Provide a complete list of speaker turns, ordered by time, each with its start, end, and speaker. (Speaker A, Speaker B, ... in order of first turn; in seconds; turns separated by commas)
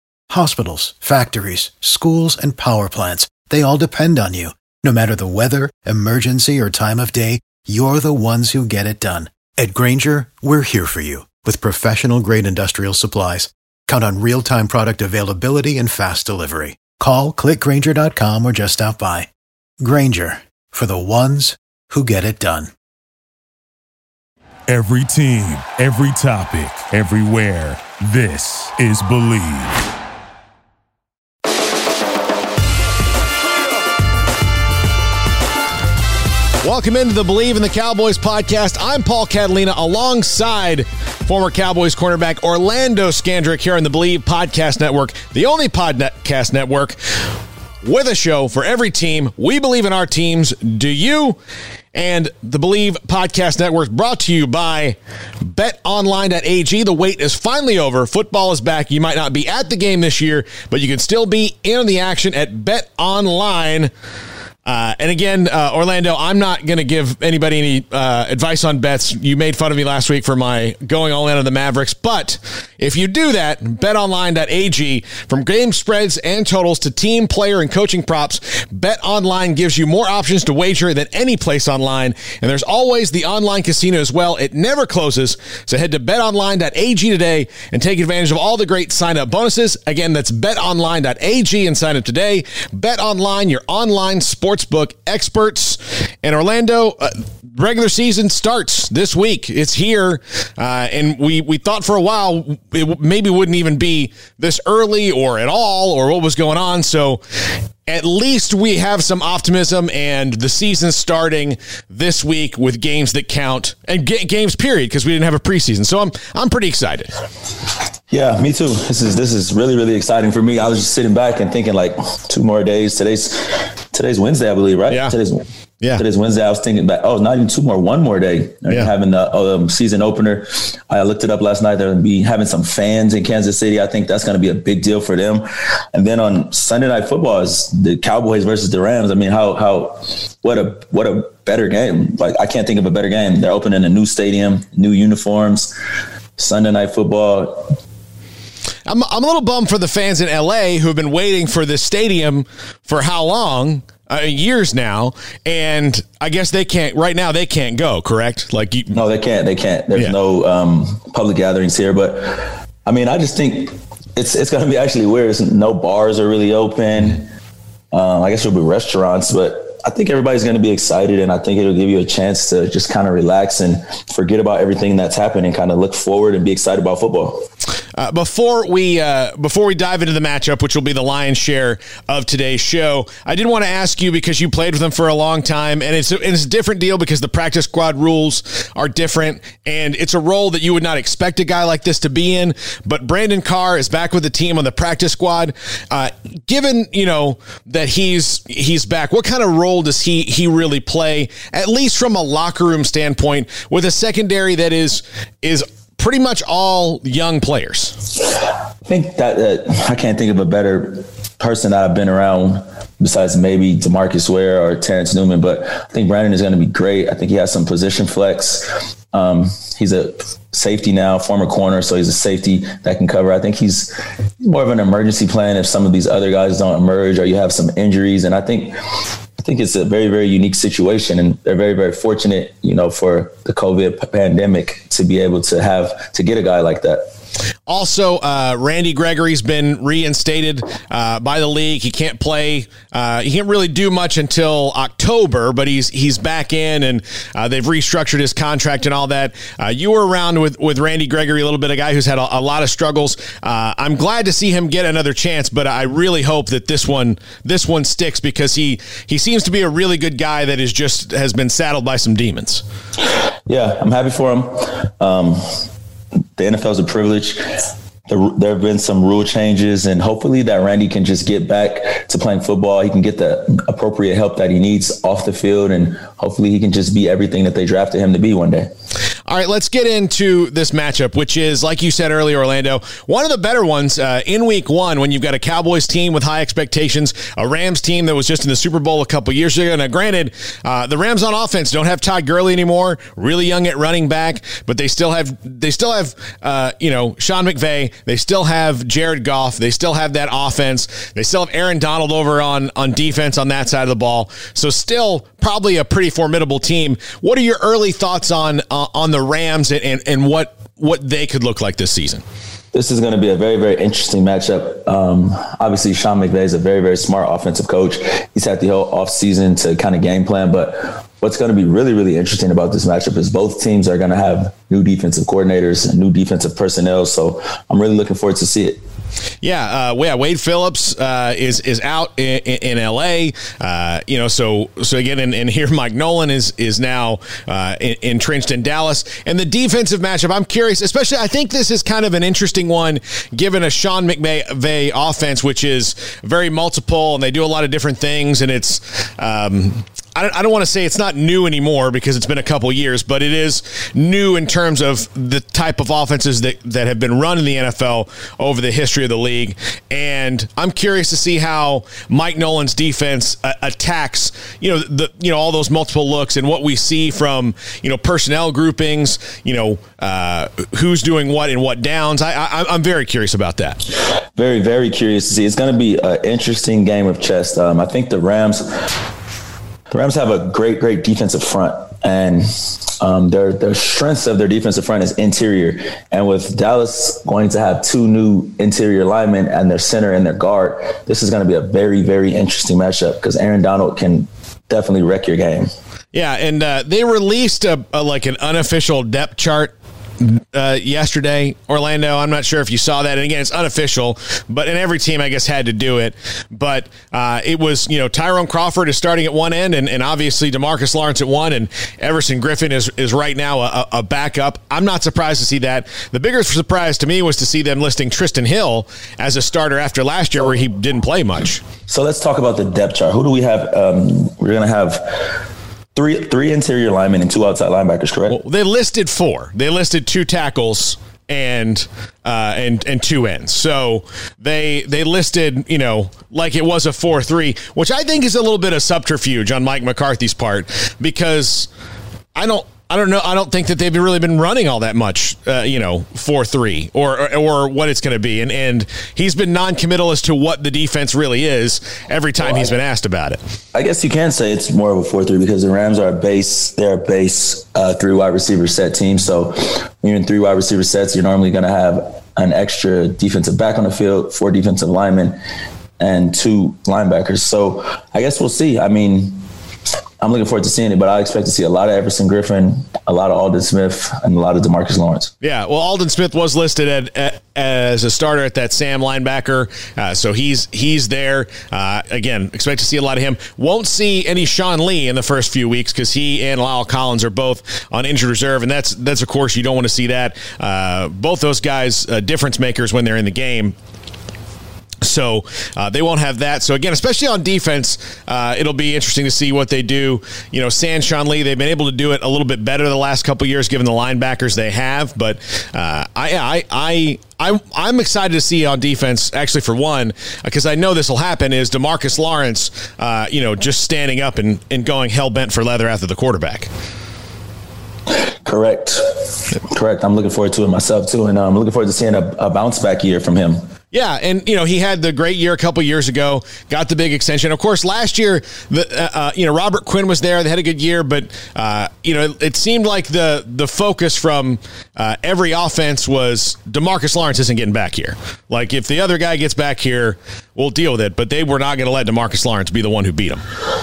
Speaker A: 0.3-19.3, Speaker A: 19.8-22.7, Speaker B: 24.7-29.9, Speaker C: 36.6-47.0, Speaker C: 47.8-51.4, Speaker C: 51.9-63.9, Speaker C: 64.6-107.2, Speaker C: 107.9-117.1, Speaker D: 118.1-125.4, Speaker D: 126.0-145.7, Speaker D: 146.4-147.8, Speaker C: 148.9-158.9, Speaker D: 158.9-167.3, Speaker D: 167.9-177.5, Speaker C: 178.0-208.0, Speaker D: 208.8-228.8, Speaker D: 229.4-237.1, Speaker C: 237.7-262.6, Speaker D: 263.5-265.6, Speaker D: 266.4-278.7, Speaker C: 279.3-312.2, Speaker D: 312.7-328.8, Speaker C: 329.4-373.8, Speaker D: 374.4-378.9, Speaker D: 379.9-382.5, Speaker D: 383.0-395.7, Speaker C: 396.1-421.6, Speaker D: 421.9-425.4, Speaker D: 425.9-428.4, Speaker C: 428.3-441.7, Speaker C: 442.3-453.4, Speaker D: 452.4-452.7, Speaker D: 453.7-465.4, Speaker D: 466.0-469.4, Speaker D: 470.2-475.3, Speaker C: 475.4-493.7, Speaker C: 495.0-516.7, Speaker D: 518.4-519.1, Speaker D: 519.6-523.6, Speaker C: 523.9-543.4